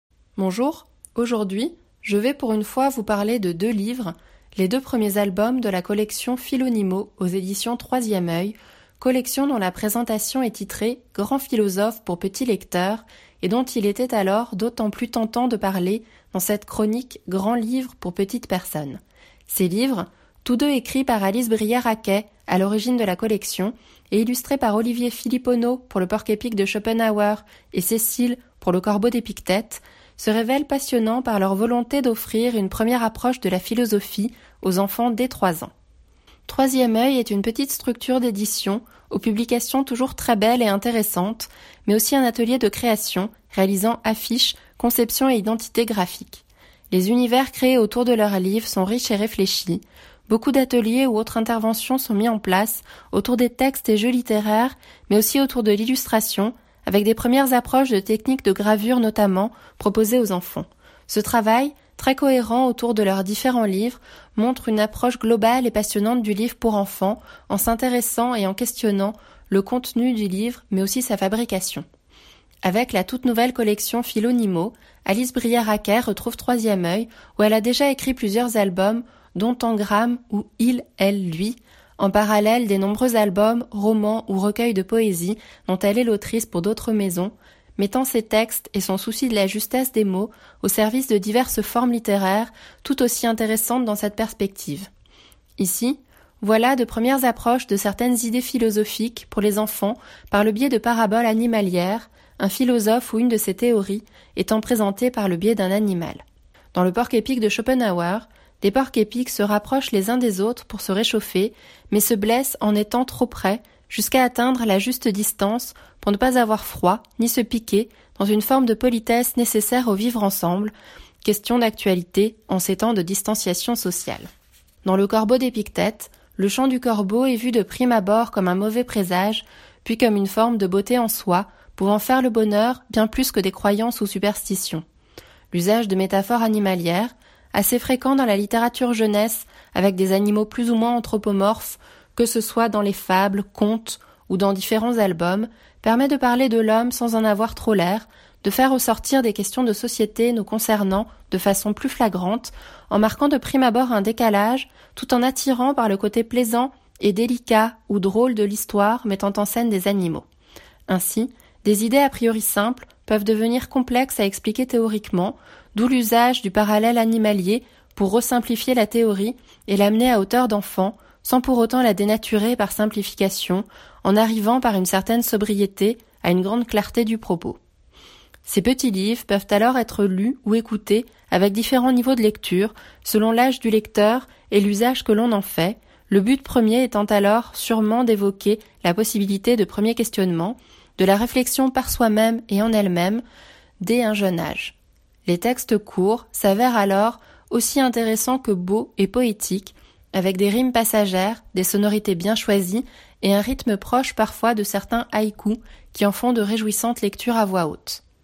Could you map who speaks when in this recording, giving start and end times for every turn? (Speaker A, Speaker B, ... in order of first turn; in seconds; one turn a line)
Speaker A: 0.4-35.7
Speaker A: 36.5-71.8
Speaker A: 72.6-94.9
Speaker A: 95.6-106.2
Speaker A: 106.7-124.3
Speaker A: 124.8-134.8
Speaker A: 135.5-160.2
Speaker A: 160.9-177.6
Speaker A: 178.4-193.2
Speaker A: 193.8-208.0